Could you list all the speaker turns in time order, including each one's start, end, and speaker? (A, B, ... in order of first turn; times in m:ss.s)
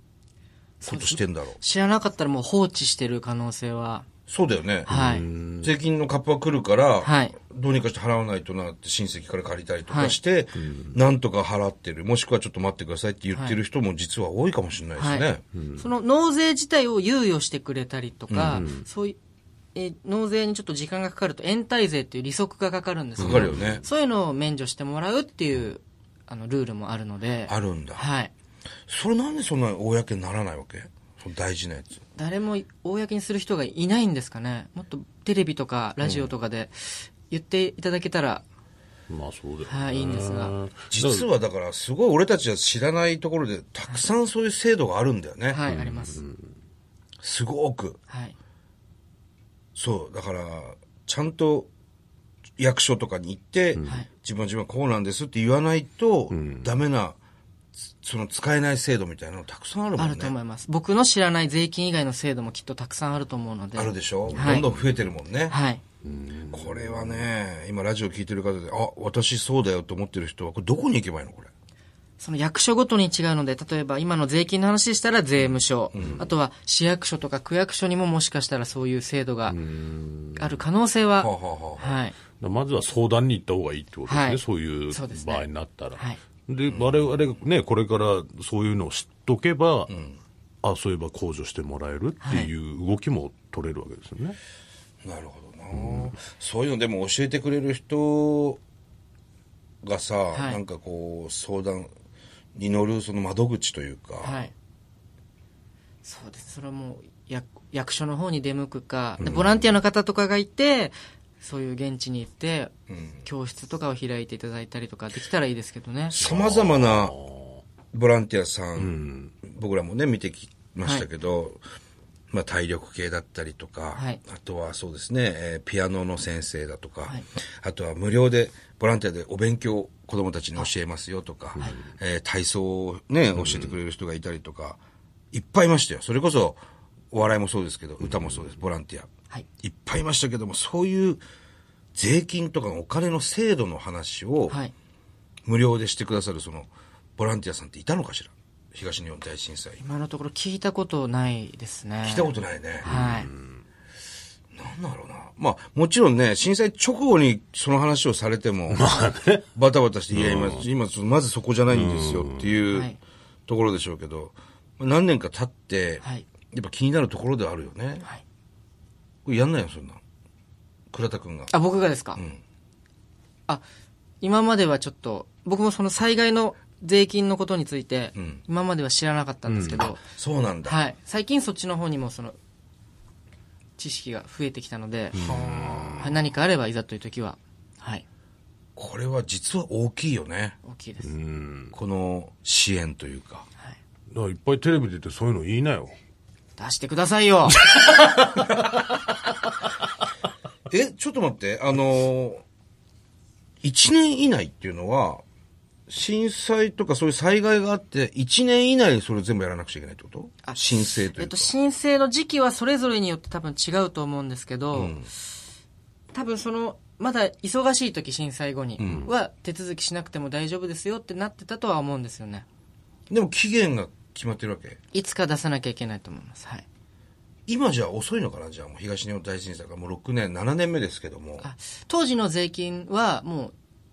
0:00.8-0:04.2 A
0:00.9-0:01.6 B
0:04.3-0:05.0 B
0:04.9-0:05.7 C
0:04.9-0:05.3 A
0:05.6-0:15.4 B
0:07.0-0:07.4 A
0:09.9-0:10.2 A
0:10.6-0:11.0 C
0:13.3-0:13.6 A
0:15.0-0:19.2 A
0:15.5-0:15.9 C
0:18.3-0:18.7 B
0:18.5-0:18.9 C
0:19.8-0:28.3 A
0:23.2-0:23.8 C
0:23.3-0:23.8 B
0:27.5-0:28.0 B
0:28.9-0:32.0 B
0:32.2-0:38.4 A
0:36.0-0:36.3 B
0:39.1-0:41.3 C
0:39.7-0:40.6 A
0:40.8-0:45.6 B
0:45.5-0:46.2 A
0:45.6-0:46.5 C
0:47.2-0:48.0 B
0:48.1-0:48.4 A
0:49.8-0:51.7 B
0:52.6-0:57.2 B
0:53.8-0:54.0 C
0:53.9-0:54.1 A
0:56.3-0:56.7 C
0:58.0-1:00.4 B
1:00.0-1:04.7 A
1:03.8-1:05.6 B
1:04.3-1:05.0 C
1:05.5-1:05.8 A
1:06.0-1:07.3 C
1:06.5-1:11.5 B
1:12.2-1:19.6 A
1:15.4-1:16.3 C
1:15.9-1:16.3 B
1:19.5-1:20.6 C
1:20.4-1:22.2 A
1:21.2-1:22.0 B
1:22.4-1:29.9 C
1:24.1-1:26.2 A
1:26.7-1:27.2 B
1:29.9-1:30.2 B
1:30.6-1:34.4 C
1:32.2-1:32.5 A
1:35.0-1:38.6 B
1:35.7-1:36.1 C
1:39.8-1:41.9 B
1:40.3-1:40.6 A
1:42.6-1:44.5 B
1:44.2-1:44.5 A
1:46.0-1:52.7 A
1:49.2-1:49.6 B
1:52.9-1:53.2 B
1:53.2-1:56.2 A
1:56.1-1:57.2 B
1:56.2-1:57.6 C
1:57.9-2:01.6 B
1:58.8-1:59.4 C
2:02.3-2:14.8 B
2:03.9-2:04.3 A
2:11.6-2:11.9 C
2:13.4-2:13.8 C
2:15.3-2:16.6 B
2:17.1-2:21.2 B
2:18.0-2:18.4 C
2:22.0-2:24.6 B
2:25.5-2:29.8 B
2:29.8-2:33.3 A
2:32.0-2:33.0 B
2:32.8-2:33.6 C
2:34.5-2:38.9 B
2:38.7-2:39.5 C
2:39.5-2:42.9 B
2:40.1-2:40.7 C
2:41.7-2:42.7 C
2:42.7-2:43.0 A
2:43.5-2:48.1 B
2:46.0-2:46.4 A
2:49.3-2:50.0 B
2:50.9-2:51.5 B
2:51.5-2:52.2 A
2:52.2-2:52.4 B
2:54.2-3:00.1 A
2:58.2-2:58.4 B
2:59.5-2:59.9 C
2:59.7-3:00.8 B
3:00.6-3:02.4 A
3:03.8-3:05.3 A
3:05.1-3:06.2 C
3:05.2-3:06.1 B
3:06.0-3:08.0 A
3:08.8-3:10.6 B
3:10.6-3:11.1 A
3:11.0-3:11.8 C
3:11.7-3:13.5 B
3:14.1-3:16.0 C
3:16.6-3:17.7 A
3:17.7-3:18.7 C
3:20.7-3:22.4 B
3:23.6-3:25.2 B
3:25.9-3:31.5 B
3:30.4-3:35.0 A
3:34.7-3:35.1 B
3:36.1-3:42.4 A
3:38.8-3:39.1 B
3:43.1-3:44.8 B
3:44.9-3:46.6 A
3:47.5-3:51.4 B
3:51.4-3:53.5 A